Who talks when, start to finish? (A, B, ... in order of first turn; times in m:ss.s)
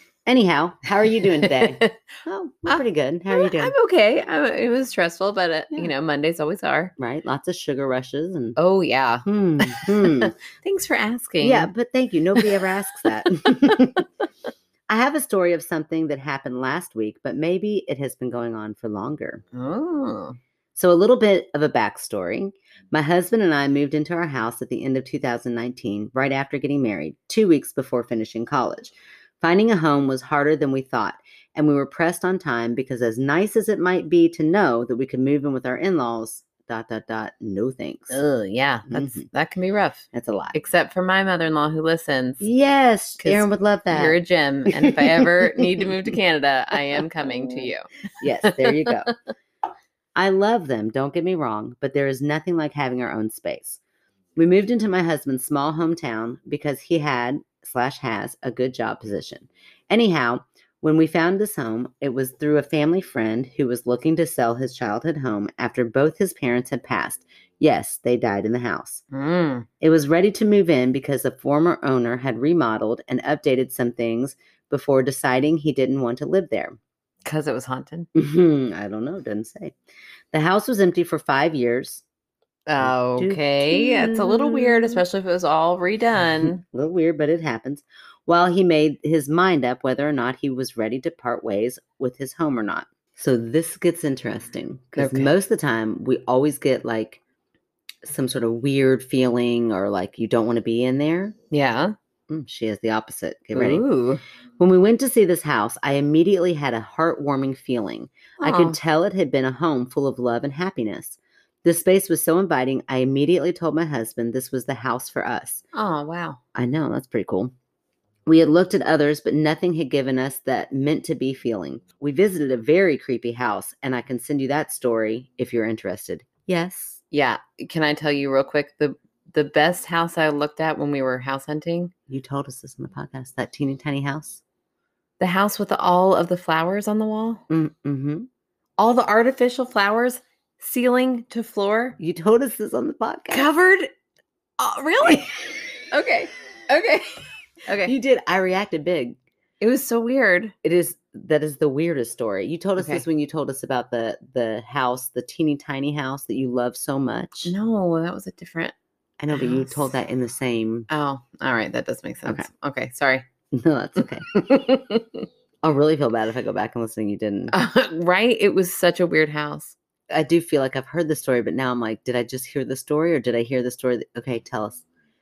0:00.3-0:03.7 A
0:01.4-0:02.0 B
0:02.7-0:06.9 B
0:07.0-0:08.6 A
0:08.6-0:11.7 B
0:09.3-0:10.3 A
0:11.4-0:14.1 A
0:14.9-0:19.4 A
0:19.5-0:20.4 B
0:20.8-0:38.2 A
0:38.1-0:42.5 B
0:38.9-0:39.2 A
0:40.1-0:40.6 A
0:42.4-0:44.2 A
0:43.2-0:47.9 B
0:44.7-0:46.2 A
0:47.0-0:49.1 A
0:48.4-0:49.1 B
0:50.2-0:53.8 A
0:54.4-1:09.0 A
1:09.1-1:09.7 B
1:09.8-1:16.8 A
1:17.2-1:18.1 B
1:18.2-1:19.8 A
1:20.3-1:22.0 A
1:22.7-1:26.6 B
1:22.8-1:25.0 A
1:26.4-1:37.2 A
1:35.0-1:35.3 B
1:38.0-1:41.4 A
1:41.5-1:42.0 B
1:42.3-1:43.8 A
1:43.5-1:44.2 B
1:44.6-1:55.6 A
1:48.4-1:48.8 B
1:55.7-1:56.4 B
1:56.6-1:57.5 A
1:58.3-2:07.0 A
2:07.1-2:11.9 B
2:12.1-2:14.4 A
2:15.2-2:17.4 B
2:17.5-2:18.3 A
2:18.8-2:22.0 B
2:22.0-2:23.5 A
2:23.3-2:23.9 B
2:24.6-2:25.3 B
2:25.9-2:27.9 B
2:27.8-2:29.2 A
2:29.6-2:30.5 B
2:30.6-2:37.5 A
2:32.8-2:33.0 B
2:37.4-2:38.7 B
2:39.2-2:40.9 A
2:39.4-2:39.7 B
2:40.9-2:43.2 B
2:43.5-2:44.6 A
2:44.4-2:45.3 B
2:45.6-2:47.5 A
2:47.5-2:49.8 B
2:50.1-2:54.8 A